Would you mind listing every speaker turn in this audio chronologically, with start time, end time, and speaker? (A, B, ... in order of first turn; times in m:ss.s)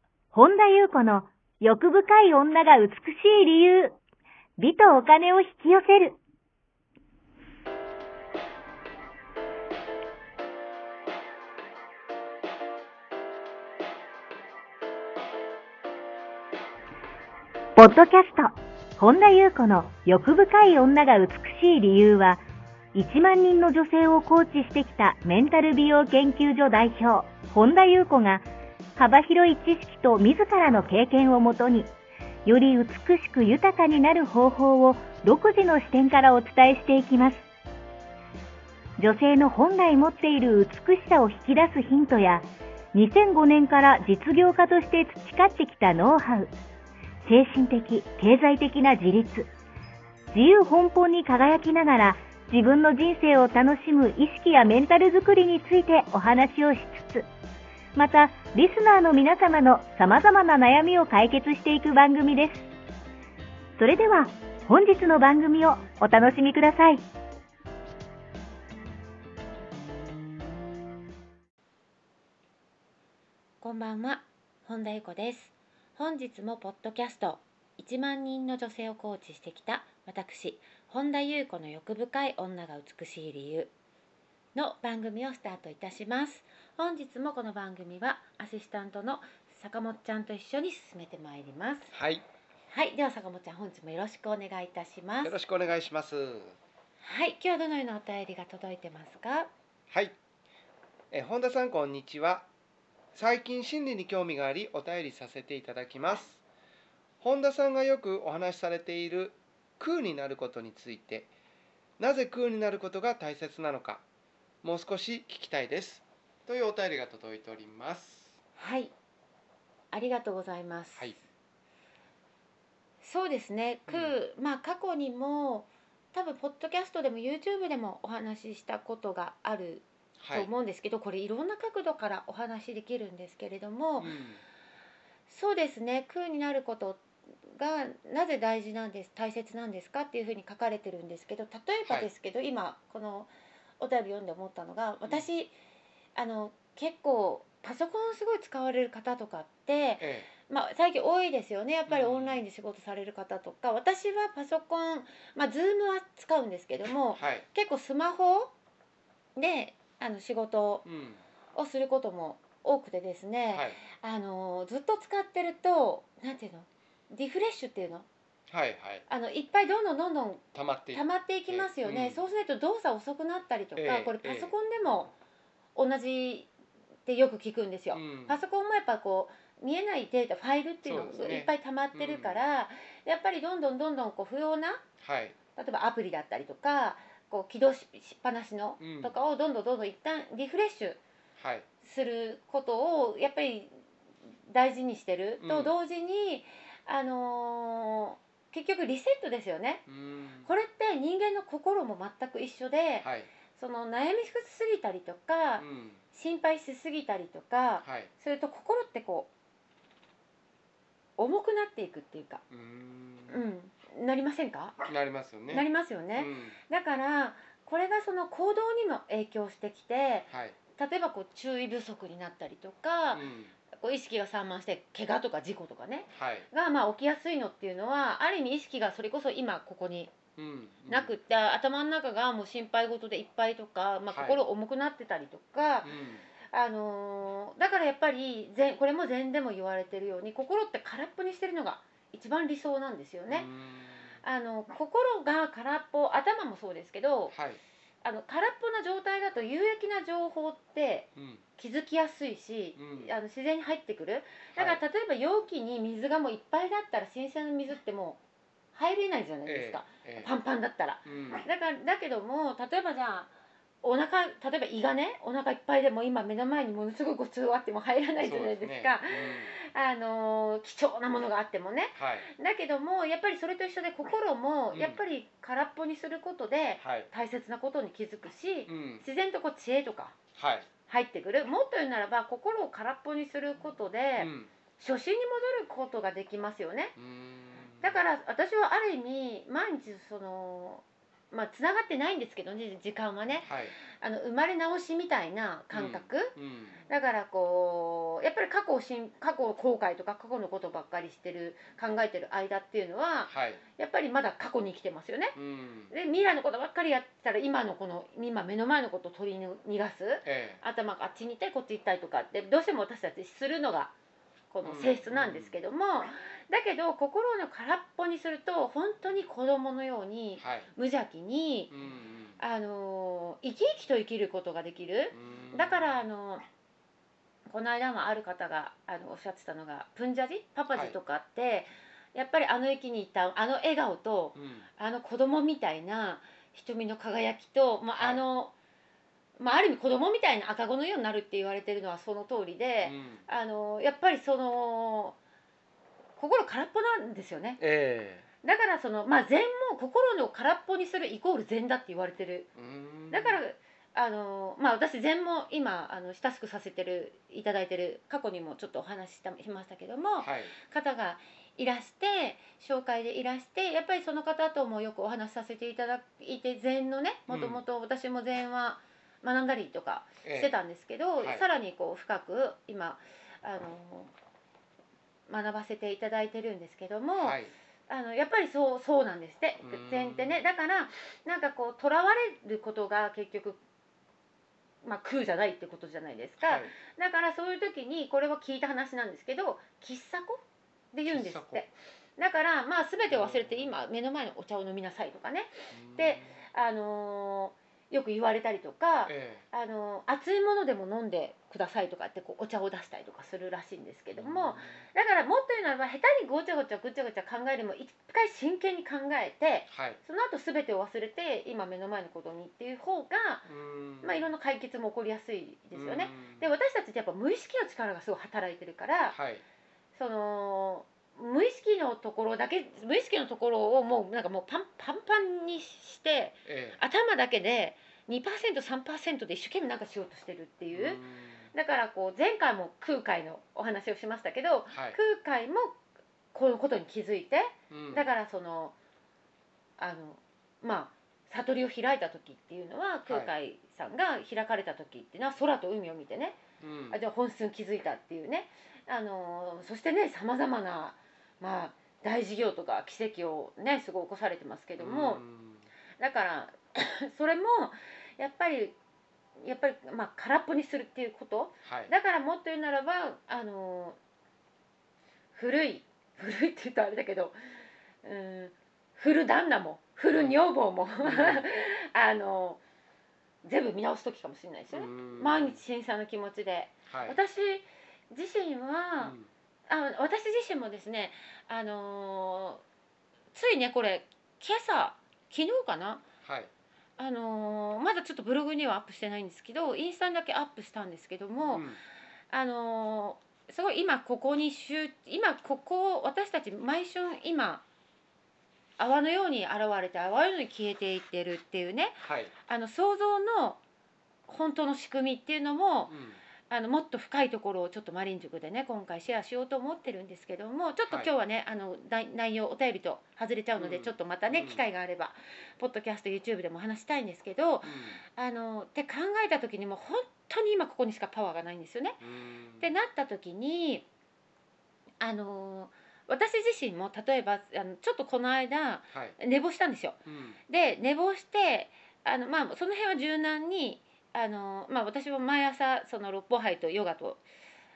0:00.3-0:04.0 A
0:04.6-0:06.2 A
0:17.8-0:22.4 A
0:22.9-0:28.4 A
0:29.0-0:31.9 A
0:32.4-0:37.4 A
0:39.0-0:46.5 A
0:47.2-0:49.5 A
0:50.3-0:57.3 A
0:57.9-1:02.7 A
1:03.8-1:07.0 A
1:13.6-1:23.7 B
1:24.5-1:31.9 B
1:31.9-1:32.2 C
1:32.7-1:35.4 B
1:35.2-1:36.6 C
1:37.0-1:39.5 B
1:39.9-1:40.1 C
1:41.1-1:42.5 C
1:43.1-1:46.4 C
1:47.2-1:51.3 C
1:52.0-1:54.0 C
1:54.6-1:58.4 C
1:58.6-1:58.9 B
1:59.9-2:01.2 B
2:03.0-2:14.1 B
2:03.9-2:04.2 C
2:10.2-2:10.5 C
2:14.0-2:14.4 C
2:15.3-2:25.5 B
2:26.2-2:38.5 B
2:30.0-2:30.3 C
2:31.9-2:32.4 C
2:37.2-2:37.4 C
2:39.4-2:40.8 B
2:40.8-2:41.2 C
2:41.6-2:48.1 B
2:43.5-2:43.8 C
2:48.5-2:49.0 C
2:49.1-2:55.1 B
2:50.5-2:52.2 C
2:53.8-2:54.5 C
2:55.8-2:56.5 B
2:57.0-3:04.8 B
2:57.9-2:58.4 C
3:00.8-3:02.4 C
3:05.0-3:05.4 C
3:05.6-3:11.0 B
3:08.8-3:09.2 C
3:11.4-3:11.7 C
3:11.8-3:13.7 B
3:14.5-3:19.8 B
3:15.4-3:15.7 C
3:19.9-3:20.5 C
3:20.4-3:29.3 B
3:23.0-3:23.3 C
3:25.6-3:26.0 C
3:27.8-3:28.1 C
3:31.2-3:32.4 B
3:32.5-3:33.4 C
3:33.3-3:34.8 B
3:34.8-3:36.6 C
3:35.5-3:50.1 B
3:40.3-3:40.6 C
3:43.1-3:43.5 C
3:46.1-3:46.5 C
3:50.4-3:51.1 C
3:50.9-3:55.9 B
3:54.1-3:54.4 C
3:55.8-3:56.2 C
3:56.5-4:03.5 B
4:03.3-4:04.1 C
4:04.2-4:07.3 B
4:07.3-4:07.6 C
4:08.0-4:18.2 B
4:11.2-4:11.4 C
4:12.8-4:13.1 C
4:14.5-4:14.8 C
4:18.7-4:23.3 B
4:19.4-4:20.3 C
4:21.0-4:21.4 C
4:23.8-4:40.2 B
4:28.2-4:29.5 C
4:32.0-4:32.3 C
4:34.7-4:35.0 C
4:36.8-4:37.1 C
4:38.7-4:39.0 C
4:40.4-4:40.7 C
4:40.9-4:46.9 B
4:44.2-4:44.5 C
4:47.0-4:48.0 C
4:47.8-4:56.3 B
4:53.4-4:53.8 C
4:55.7-4:56.8 C
4:56.9-5:05.3 B
5:03.3-5:03.6 C
5:05.3-5:05.9 C
5:05.9-5:13.9 B
5:10.2-5:10.6 C
5:14.5-5:21.7 B
5:14.6-5:15.5 C
5:20.4-5:20.7 C
5:21.7-5:22.4 C
5:22.4-5:26.4 B
5:25.1-5:25.9 C
5:27.5-5:38.5 B
5:30.7-5:31.0 C
5:34.3-5:34.7 C
5:38.0-5:38.2 C
5:39.4-5:45.2 B
5:42.8-5:43.2 C
5:46.2-5:47.6 B
5:47.6-5:48.2 C
5:48.4-5:52.5 B
5:52.6-5:53.4 C
5:53.1-6:14.1 B
6:00.2-6:00.5 C
6:07.3-6:07.6 C
6:10.2-6:10.5 C
6:15.3-6:23.6 B
6:17.2-6:17.5 C
6:19.6-6:20.4 C
6:24.8-6:53.5 B
6:26.4-6:26.7 C
6:31.1-6:31.6 C
6:33.1-6:33.7 C
6:35.7-6:36.4 C
6:39.0-6:39.4 C
6:44.1-6:44.8 C
6:49.7-6:50.0 C
6:53.4-6:54.3 C
6:54.0-6:59.2 B
6:55.7-6:56.5 C
6:59.1-6:59.4 C
6:59.9-7:11.0 B
7:06.4-7:06.8 C
7:10.7-7:11.5 C
7:11.5-7:15.8 B
7:14.7-7:15.0 C
7:16.3-7:18.7 B
7:17.7-7:18.1 C
7:19.8-7:26.4 B
7:23.1-7:23.3 C
7:26.6-7:27.0 C
7:26.9-7:35.2 B
7:34.8-7:35.6 C
7:36.0-7:38.8 B
7:39.4-7:44.0 B
7:41.6-7:41.9 C
7:45.3-7:47.3 B
7:48.0-7:52.6 B
7:50.1-7:50.4 C
7:51.0-7:51.4 C
7:53.4-8:02.6 B
7:54.7-7:55.6 C
7:56.9-7:57.2 C
7:59.0-7:59.3 C
8:03.3-8:06.0 B
8:06.2-8:06.5 C
8:07.0-8:11.6 B
8:11.5-8:11.8 C
8:12.3-8:17.6 B
8:18.8-8:23.6 B
8:22.0-8:22.3 C
8:24.3-8:25.9 B
8:25.9-8:26.2 C
8:26.5-8:42.0 B
8:33.6-8:34.6 C
8:37.6-8:38.0 C
8:42.0-8:42.7 C
8:42.6-8:43.8 B
8:45.0-8:57.2 B
8:48.9-8:49.2 C
8:50.0-8:50.4 C